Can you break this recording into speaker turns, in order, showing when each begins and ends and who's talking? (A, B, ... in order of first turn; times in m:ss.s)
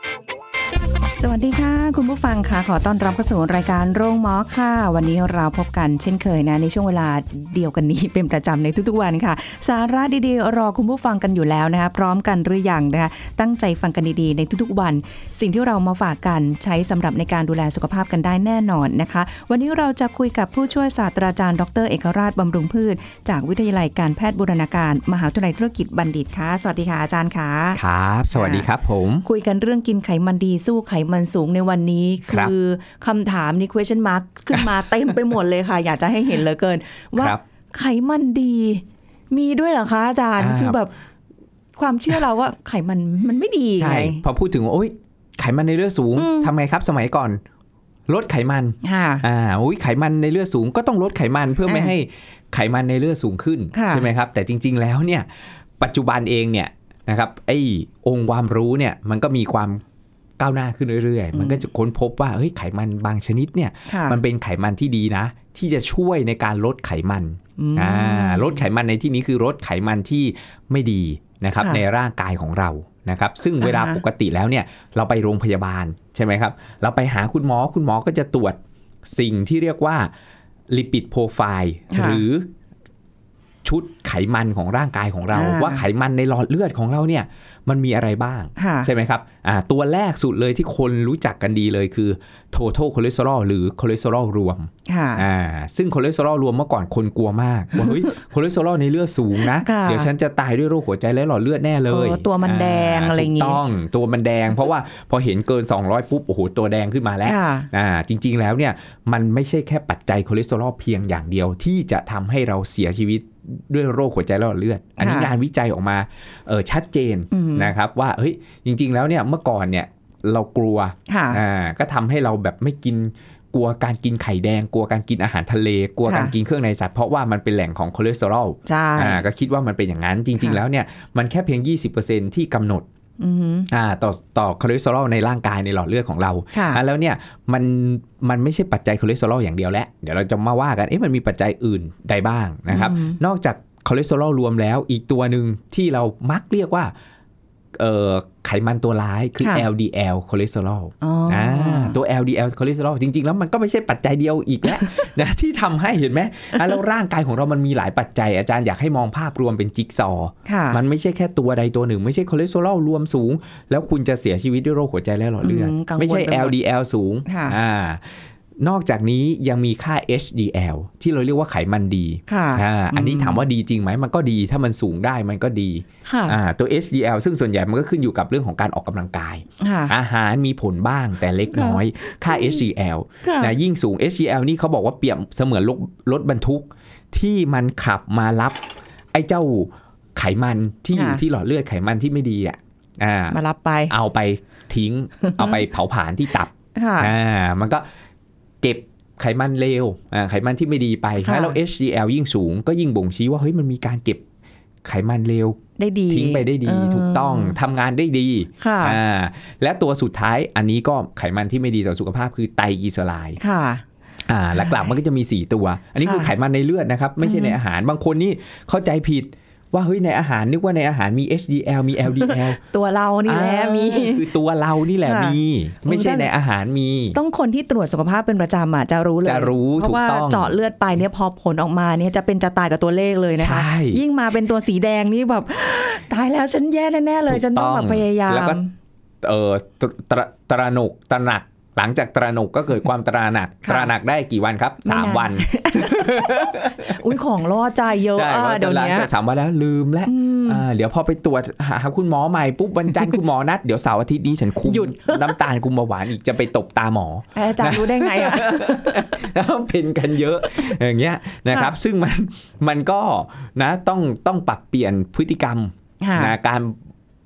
0:01.2-0:27.8 A
0:27.8-0:29.2 B
0:28.3-0:28.7 A
0:29.2-0:40.9 A
0:32.3-0:32.5 B
0:40.4-0:40.8 B
0:41.8-0:44.2 A
0:43.8-0:47.4 B
0:46.2-0:46.5 A
0:48.1-0:59.8 B
0:48.8-0:49.2 A
0:51.7-0:51.9 A
0:53.7-0:54.1 A
1:00.4-1:20.1 B
1:01.3-1:01.6 A
1:03.9-1:04.2 A
1:07.6-1:08.6 A
1:11.6-1:11.8 A
1:13.6-1:14.0 A
1:20.7-1:22.5 B
1:21.9-1:22.2 A
1:23.6-2:12.8 B
1:25.3-1:25.8 A
1:28.6-1:28.9 A
1:34.9-1:35.2 A
1:39.5-1:40.1 A
1:41.9-1:43.6 A
1:47.2-1:47.7 A
1:55.0-1:55.3 A
1:57.3-1:57.7 A
2:01.1-2:01.4 A
2:06.1-2:06.3 A
2:08.7-2:09.2 A
2:13.2-2:13.7 A
2:13.7-2:26.9 B
2:16.5-2:16.8 A
2:22.7-2:23.2 A
2:27.8-3:08.6 B
2:29.4-2:29.7 A
2:31.0-2:32.0 A
2:40.4-2:40.8 A
2:45.4-2:46.6 A
2:47.3-2:47.6 A
2:52.3-2:53.4 A
2:56.0-2:56.4 A
2:59.6-2:59.9 A
3:01.5-3:02.6 A
3:03.2-3:03.5 A
3:09.1-3:13.4 B
3:10.9-3:11.2 A
3:13.3-3:13.9 A
3:13.9-3:17.8 B
3:15.2-3:15.6 A
3:16.8-3:17.1 A
3:18.6-3:24.2 B
3:21.2-3:21.6 A
3:24.8-3:33.4 B
3:25.8-3:27.6 A
3:28.6-3:29.0 A
3:33.4-3:33.8 A
3:34.3-3:42.6 B
3:36.0-3:36.3 A
3:37.2-3:37.6 A
3:42.2-3:44.2 A
3:43.2-3:47.2 B
3:45.0-3:46.3 A
3:47.1-3:58.7 A
3:49.2-3:50.5 B
3:53.4-3:54.0 B
3:57.2-3:58.6 B
3:59.2-4:07.0 B
4:03.6-4:03.9 A
4:04.8-4:09.1 A
4:08.1-4:26.8 B
4:10.0-4:10.6 A
4:14.6-4:15.4 A
4:17.4-4:19.2 A
4:20.4-4:20.7 A
4:21.5-4:21.7 A
4:26.0-4:26.4 A